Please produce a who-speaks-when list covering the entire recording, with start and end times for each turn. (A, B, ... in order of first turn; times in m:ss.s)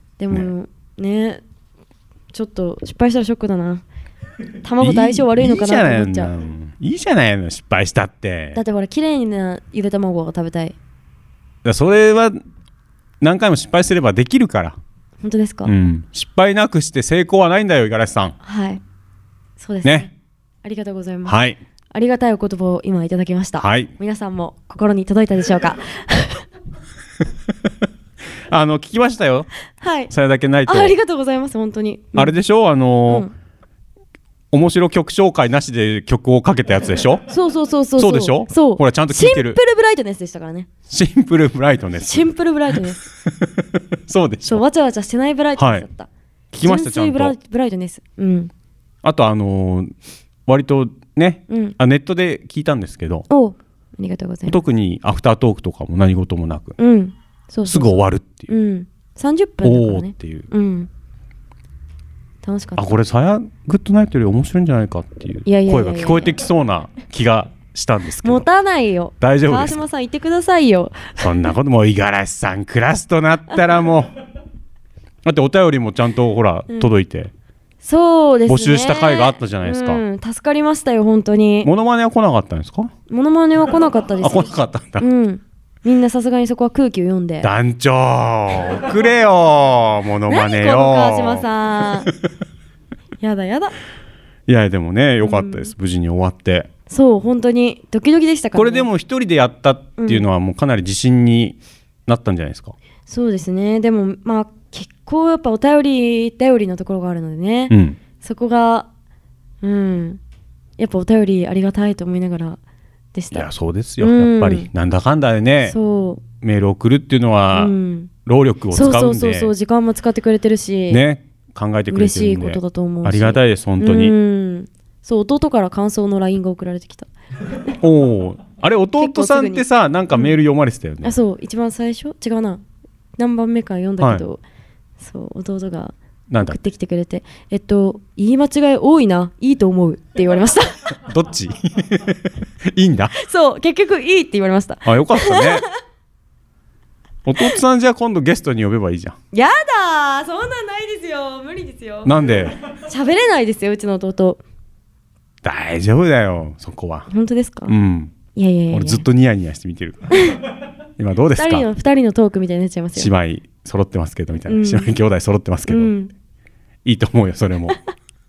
0:00.2-0:01.4 A
0:02.3-0:03.8 A
0:04.6-0:06.3 A
0:04.8-0:08.6 B
0:08.5-0:10.7 A
0:11.6-0:12.4 B
0:13.2-0:14.8 B
0:15.2-0:15.7 A
0:15.6-0:18.3 B
0:18.4-0:18.8 A
0:19.6-0:20.1 A
0:20.6-0:21.4 A
0:21.2-0:21.6 B
0:21.9-0:26.4 A
0:23.6-0:23.9 B
0:28.5-0:29.5 B
0:29.8-0:30.1 A
0:30.1-0:30.9 B
0:30.6-0:32.4 A
0:32.2-0:33.3 B
0:33.1-0:33.3 A
0:34.5-0:37.2 B
0:37.3-0:40.7 A
0:38.0-0:39.6 B
0:40.9-0:42.3 B
0:42.1-0:43.0 A
0:44.1-0:44.6 B
0:44.5-0:46.1 A
0:45.6-0:45.8 B
0:46.5-0:47.3 B
0:46.6-0:48.5 A
0:49.0-0:49.9 B
0:50.4-0:53.2 B
0:51.5-0:51.8 A
0:53.3-0:54.6 A
0:54.5-0:56.8 B
0:56.8-1:00.9 A
0:57.7-0:58.5 B
0:59.6-1:00.5 B
1:02.4-1:03.0 A
1:02.8-1:08.4 B
1:05.4-1:06.3 A
1:08.2-1:11.5 A
1:09.2-1:09.8 B
1:11.2-1:14.1 B
1:15.2-1:17.3 B
1:17.8-1:21.7 A
1:18.5-1:20.0 B
1:21.6-1:22.9 B
1:23.1-1:27.5 A
1:24.2-1:25.0 B
1:27.4-1:31.5 B
1:30.3-1:32.1 A
1:33.2-1:33.7 A
1:34.5-1:36.7 B
1:35.2-1:35.7 A
1:36.9-1:38.9 A
1:38.6-1:42.7 B
1:40.0-1:40.2 A
1:43.1-1:48.9 A
1:47.7-1:48.0 B
1:49.6-1:50.2 A
1:50.8-1:52.6 A
1:53.1-1:53.5 A
1:53.3-1:55.8 B
1:54.0-1:54.7 A
1:55.6-1:56.2 A
1:56.3-1:59.5 B
1:57.5-1:58.1 A
1:58.7-2:01.0 A
2:00.9-2:04.1 B
2:01.9-2:07.1 A
2:07.8-2:11.1 B
2:09.0-2:10.4 A
2:11.0-2:12.6 A
2:13.2-2:14.4 A
2:15.0-2:20.8 A
2:16.3-2:16.6 B
2:21.1-2:22.0 B
2:22.7-2:23.1 B
2:23.1-2:25.6 A
2:24.8-2:25.6 B
2:27.2-2:29.2 B
2:29.3-2:34.4 A
2:32.0-2:32.5 B
2:35.4-2:37.1 B
2:37.1-2:37.7 A
2:37.7-2:38.1 B
2:38.3-2:39.0 A
2:38.7-2:40.0 B
2:40.1-2:40.4 A
2:41.0-2:41.7 B
2:41.4-2:43.1 A
2:43.0-2:45.9 B
2:44.5-2:44.9 A
2:45.7-2:46.1 A
2:46.8-2:47.8 B